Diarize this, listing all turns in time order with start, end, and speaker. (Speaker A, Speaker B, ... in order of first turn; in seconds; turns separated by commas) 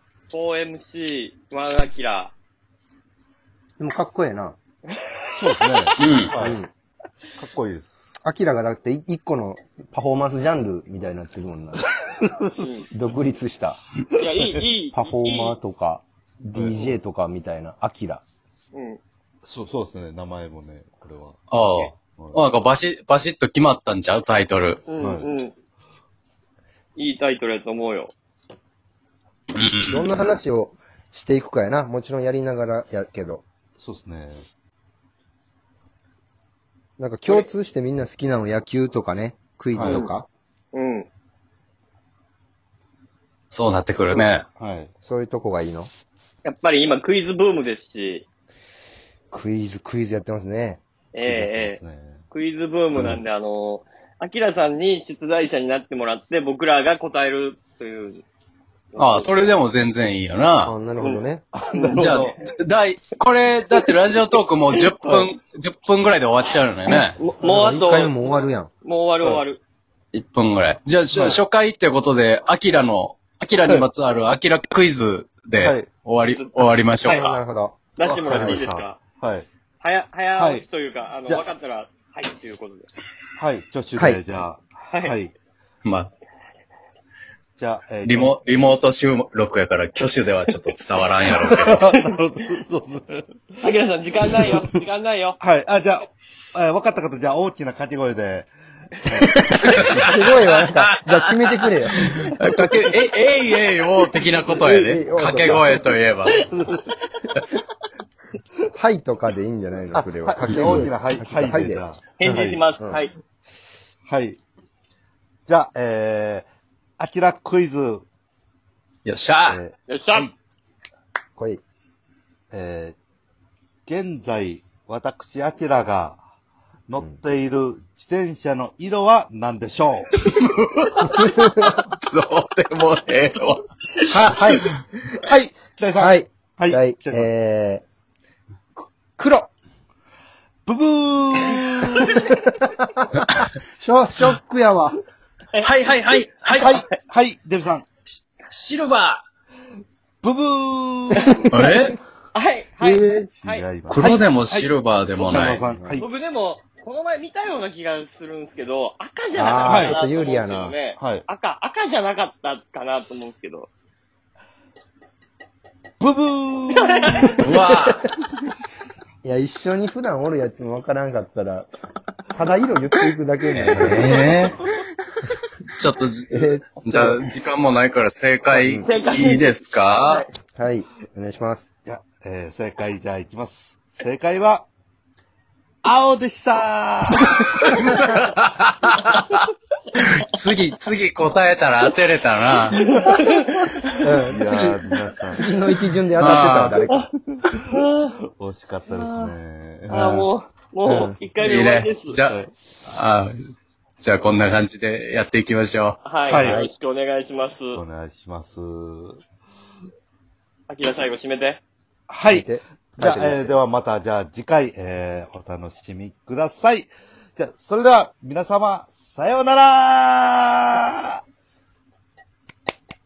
Speaker A: 0.3-2.3, Speaker B: 3.8-4.6, Speaker C: 5.3-6.6, Speaker D: 6.0-6.3, Speaker B: 6.4-6.7, Speaker C: 7.4-8.0, Speaker B: 8.2-11.9, Speaker A: 12.6-12.9, Speaker B: 12.9-13.8, Speaker A: 14.2-15.6, Speaker B: 14.9-18.2, Speaker C: 16.5-16.9, Speaker A: 18.7-19.0, Speaker C: 19.4-22.4, Speaker D: 21.5-24.8, Speaker A: 24.9-25.5, Speaker C: 25.0-25.3, Speaker A: 27.0-28.1, Speaker D: 29.6-30.1, Speaker B: 29.9-33.4, Speaker C: 33.8-34.5, Speaker B: 37.0-40.3, Speaker C: 39.8-40.1, Speaker A: 39.8-40.1, Speaker A: 40.7-41.1, Speaker D: 43.5-44.5, Speaker C: 44.6-44.9, Speaker B: 45.0-45.9, Speaker A: 46.5-48.2, Speaker B: 49.3-50.8, Speaker A: 51.1-51.8, Speaker C: 51.2-52.2, Speaker A: 52.3-58.2, Speaker C: 52.9-53.2, Speaker A: 58.9-59.4, Speaker D: 59.0-60.7, Speaker B: 60.6-61.5, Speaker A: 61.0-61.2, Speaker C: 61.5-62.4, Speaker A: 61.8-62.3, Speaker D: 61.9-67.2, Speaker A: 64.7-65.3, Speaker A: 67.2-69.6, Speaker B: 67.4-68.7, Speaker D: 70.1-77.3, Speaker C: 71.1-71.4, Speaker C: 75.5-75.9, Speaker A: 76.4-77.4, Speaker B: 77.0-77.8, Speaker A: 78.0-79.0, Speaker C: 78.0-79.5, Speaker B: 78.3-78.7, Speaker A: 79.8-82.9, Speaker C: 80.4-80.6, Speaker C: 83.4-85.3, Speaker D: 85.8-86.1, Speaker C: 87.6-88.6, Speaker D: 88.0-91.9, Speaker C: 91.5-93.6, Speaker A: 93.6-95.4, Speaker C: 95.4-98.5, Speaker C: 99.0-100.2, Speaker B: 99.4-102.2, Speaker D: 99.7-106.4, Speaker B: 104.6-105.8, Speaker B: 108.7-113.0, Speaker C: 110.0-112.7, Speaker D: 110.5-110.8, Speaker A: 112.2-113.2, Speaker C: 114.1-114.4, Speaker C: 115.5-116.5, Speaker C: 117.0-118.1, Speaker D: 119.0-119.6, Speaker C: 119.5-120.3, Speaker A: 119.9-120.3, Speaker C: 122.5-123.0, Speaker C: 123.9-126.2, Speaker C: 126.9-130.1, Speaker D: 130.2-133.7, Speaker B: 131.1-131.8, Speaker B: 134.1-134.7, Speaker D: 134.3-134.6, Speaker C: 135.2-137.3, Speaker B: 136.0-137.8, Speaker B: 139.2-139.5, Speaker C: 140.7-142.2, Speaker B: 142.0-145.0, Speaker D: 145.6-146.8, Speaker C: 146.5-147.8, Speaker D: 148.1-149.2, Speaker C: 150.2-151.3, Speaker A: 151.2-151.8, Speaker D: 151.5-152.0, Speaker A: 152.3-153.7, Speaker B: 152.8-153.3, Speaker C: 153.4-156.1, Speaker D: 153.9-155.6, Speaker B: 154.0-154.3, Speaker B: 155.6-156.0, Speaker A: 156.0-163.7, Speaker B: 159.3-160.8, Speaker C: 159.6-160.0, Speaker C: 160.9-161.2, Speaker C: 166.0-167.4, Speaker A: 166.9-167.3, Speaker D: 167.4-168.1, Speaker B: 169.2-171.7, Speaker B: 172.3-174.3, Speaker D: 173.5-174.6, Speaker D: 175.8-180.2, Speaker B: 176.3-177.2, Speaker B: 178.5-178.9, Speaker A: 178.8-180.3, Speaker B: 180.6-181.7, Speaker C: 181.8-184.7, Speaker C: 185.8-187.3, Speaker D: 187.2-189.4, Speaker D: 190.0-192.8, Speaker A: 192.7-193.7, Speaker B: 194.0-197.1, Speaker C: 194.3-195.4, Speaker D: 196.2-196.8, Speaker C: 197.3-197.8, Speaker A: 197.5-198.1, Speaker C: 198.3-200.3, Speaker A: 198.9-199.3, Speaker A: 199.9-202.2, Speaker B: 200.8-201.2, Speaker D: 201.4-203.3, Speaker C: 202.2-202.5, Speaker D: 204.0-206.0, Speaker A: 206.0-207.8, Speaker C: 206.3-206.6, Speaker B: 206.3-206.7, Speaker C: 207.7-209.2, Speaker A: 210.7-211.6, Speaker C: 212.1-221.2, Speaker B: 212.3-213.6